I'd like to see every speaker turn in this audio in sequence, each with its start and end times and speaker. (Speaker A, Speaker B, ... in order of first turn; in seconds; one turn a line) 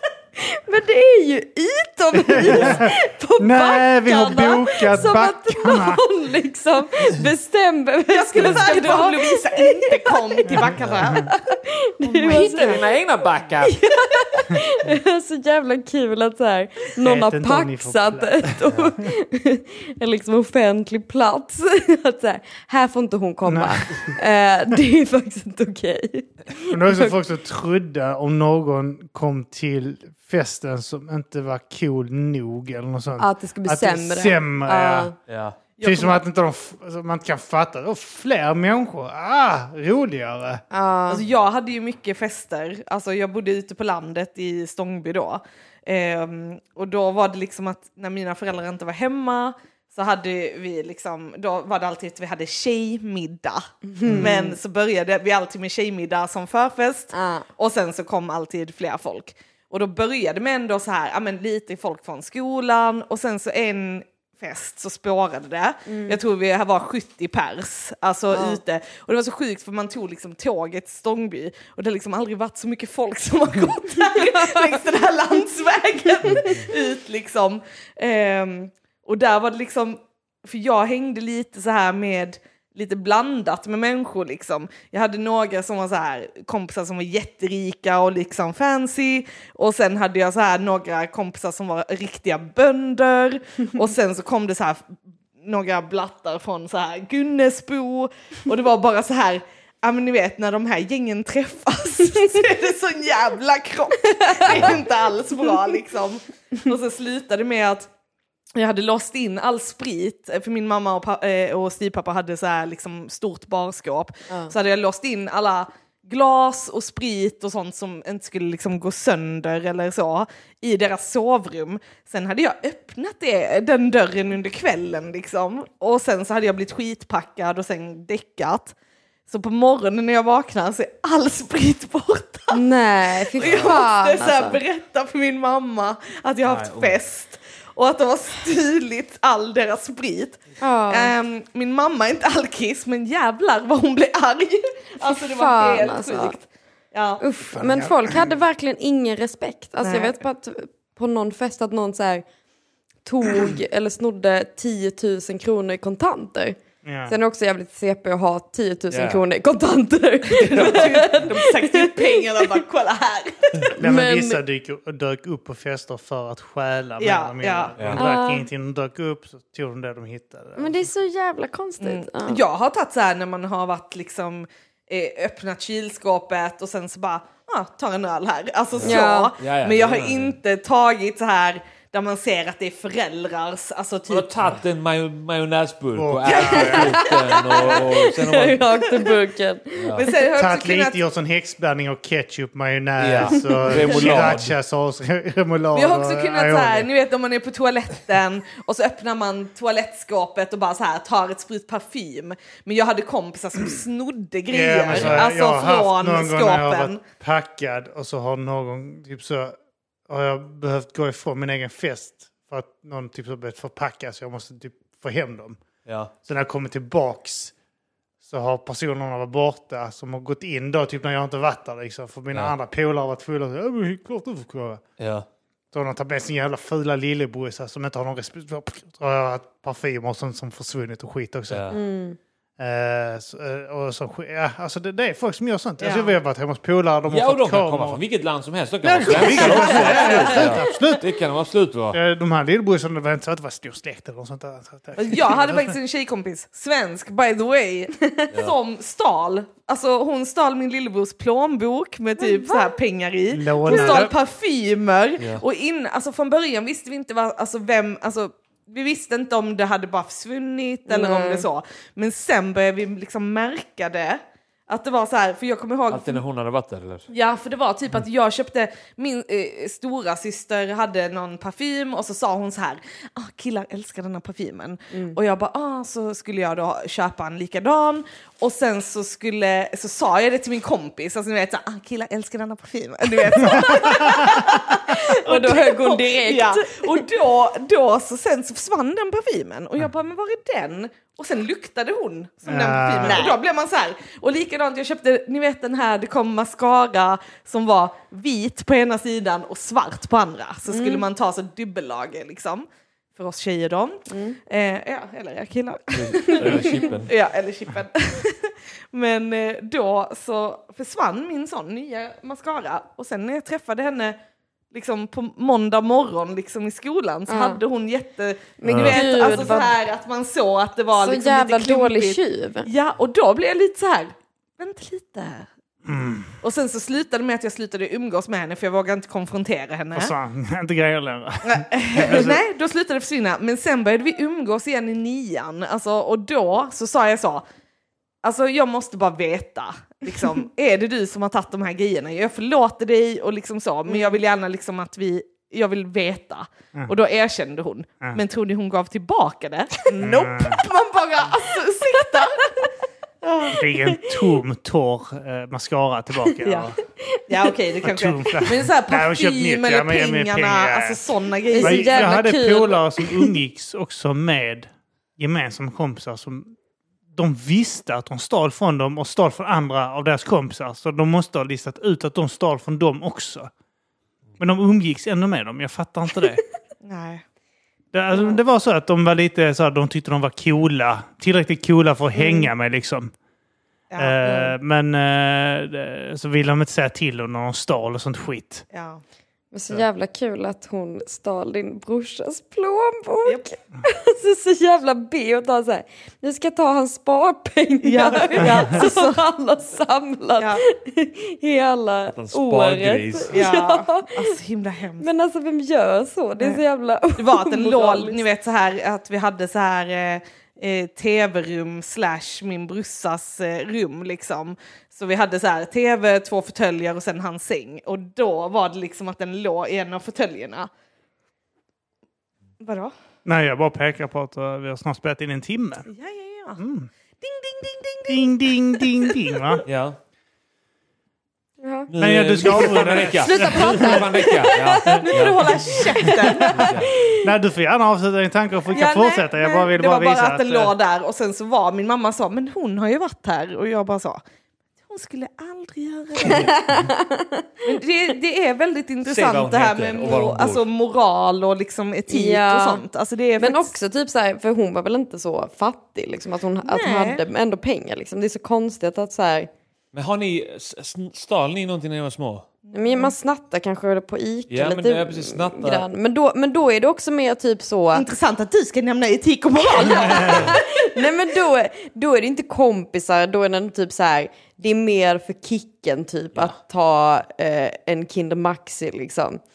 Speaker A: 0.4-12.8
Speaker B: 2.1-6.0
Speaker C: 2.5-2.8
Speaker D: 8.1-11.3
Speaker B: 10.5-11.2
Speaker C: 10.8-11.1
Speaker C: 12.1-13.8
Speaker A: 13.6-27.1
Speaker B: 17.0-18.7
Speaker B: 23.4-24.1
Speaker B: 26.7-35.1
Speaker A: 33.2-35.1
Speaker C: 35.3-35.6
Speaker D: 35.8-36.2
Speaker B: 35.8-40.6
Speaker A: 40.7-41.2
Speaker D: 41.1-94.9
Speaker A: 53.9-54.6
Speaker B: 54.0-54.3
Speaker A: 57.1-57.5
Speaker A: 65.9-66.2
Speaker A: 68.3-68.6
Speaker A: 74.1-74.8
Speaker D: 95.4-107.9
Speaker A: 104.2-104.7
Speaker C: 104.5-104.8
Speaker D: 108.5-128.7
Speaker D: 129.3-132.6
Speaker A: 132.5-134.6
Speaker D: 133.2-147.2
Speaker C: 133.4-133.8
Speaker C: 136.4-137.0
Speaker A: 140.6-141.1
Speaker A: 145.0-146.4
Speaker A: 147.2-152.2
Speaker B: 147.5-148.4
Speaker D: 149.8-150.2
Speaker A: 153.0-162.5
Speaker B: 156.8-157.1
Speaker C: 158.9-159.2
Speaker D: 160.3-163.7
Speaker C: 160.5-161.2
Speaker B: 163.8-170.9
Speaker A: 163.8-164.4
Speaker D: 167.0-167.8
Speaker A: 167.9-168.4
Speaker A: 170.6-172.4
Speaker D: 171.8-184.5
Speaker C: 178.8-180.4
Speaker A: 178.8-179.3
Speaker C: 184.1-188.8
Speaker B: 185.9-187.0
Speaker D: 186.2-187.8
Speaker A: 186.5-190.1
Speaker C: 189.8-190.1
Speaker D: 189.9-191.0
Speaker B: 190.4-196.9
Speaker C: 193.0-194.5
Speaker D: 195.7-207.0
Speaker B: 204.5-209.6
Speaker C: 204.9-205.3
Speaker B: 210.1-215.6
Speaker C: 215.9-216.1
Speaker B: 216.2-217.5
Speaker B: 218.2-224.8
Speaker C: 225.0-225.2
Speaker B: 225.7-231.7
Speaker C: 231.5-231.8
Speaker A: 231.7-232.2
Speaker B: 232.6-238.0
Speaker D: 235.8-236.2
Speaker C: 237.1-242.0
Speaker B: 238.8-241.1
Speaker D: 239.2-240.4
Speaker A: 239.4-240.5
Speaker B: 241.9-245.7
Speaker D: 244.9-266.2
Speaker A: 252.2-252.7
Speaker B: 253.3-254.1
Speaker A: 253.7-254.0
Speaker A: 260.9-261.4
Speaker C: 265.9-267.1
Speaker D: 267.1-314.2
Speaker A: 274.9-275.2
Speaker B: 283.4-284.4
Speaker A: 283.5-287.0
Speaker B: 292.5-293.3
Speaker A: 300.7-301.0
Speaker A: 304.1-304.4
Speaker C: 305.9-307.1
Speaker D: 314.7-325.5
Speaker A: 317.3-317.6
Speaker A: 318.6-319.7
Speaker B: 318.6-319.2
Speaker A: 321.0-322.7
Speaker B: 325.8-326.3
Speaker D: 326.4-330.1
Speaker B: 329.9-332.4
Speaker D: 331.4-337.4
Speaker D: 338.2-352.5
Speaker B: 350.0-350.6
Speaker D: 353.2-353.6
Speaker B: 353.5-356.8
Speaker A: 353.8-354.1
Speaker D: 356.4-356.7
Speaker A: 357.0-357.5
Speaker D: 357.3-362.5
Speaker B: 357.8-361.0
Speaker A: 361.5-363.3
Speaker B: 361.6-366.6
Speaker B: 367.1-373.5
Speaker B: 374.4-376.4
Speaker D: 376.8-377.2
Speaker B: 377.9-383.1
Speaker D: 383.9-384.5
Speaker B: 384.0-388.6
Speaker D: 388.7-389.0
Speaker A: 389.5-404.3
Speaker D: 393.2-393.5
Speaker D: 397.8-399.2
Speaker B: 398.4-398.8
Speaker D: 400.4-400.6
Speaker C: 402.1-403.4
Speaker D: 403.3-405.1
Speaker A: 405.0-408.2
Speaker D: 407.2-420.7
Speaker D: 422.6-422.9
Speaker B: 423.2-425.9
Speaker D: 425.9-426.6
Speaker B: 426.6-426.9
Speaker D: 427.2-429.6
Speaker B: 428.1-429.6
Speaker C: 429.6-430.0
Speaker A: 431.6-431.9
Speaker C: 431.9-435.8
Speaker B: 431.9-434.0
Speaker D: 433.2-436.8
Speaker A: 433.3-437.2
Speaker C: 436.5-436.9
Speaker B: 437.2-440.7
Speaker A: 438.7-439.3
Speaker D: 438.8-444.2
Speaker D: 444.9-446.5
Speaker A: 446.2-447.5
Speaker D: 447.6-453.7
Speaker C: 449.1-450.6
Speaker A: 452.1-452.8
Speaker A: 453.4-459.5
Speaker D: 456.6-457.2
Speaker C: 459.9-462.5
Speaker D: 462.6-463.1
Speaker A: 462.7-468.0
Speaker C: 464.5-465.8
Speaker D: 467.9-470.6
Speaker A: 469.8-479.4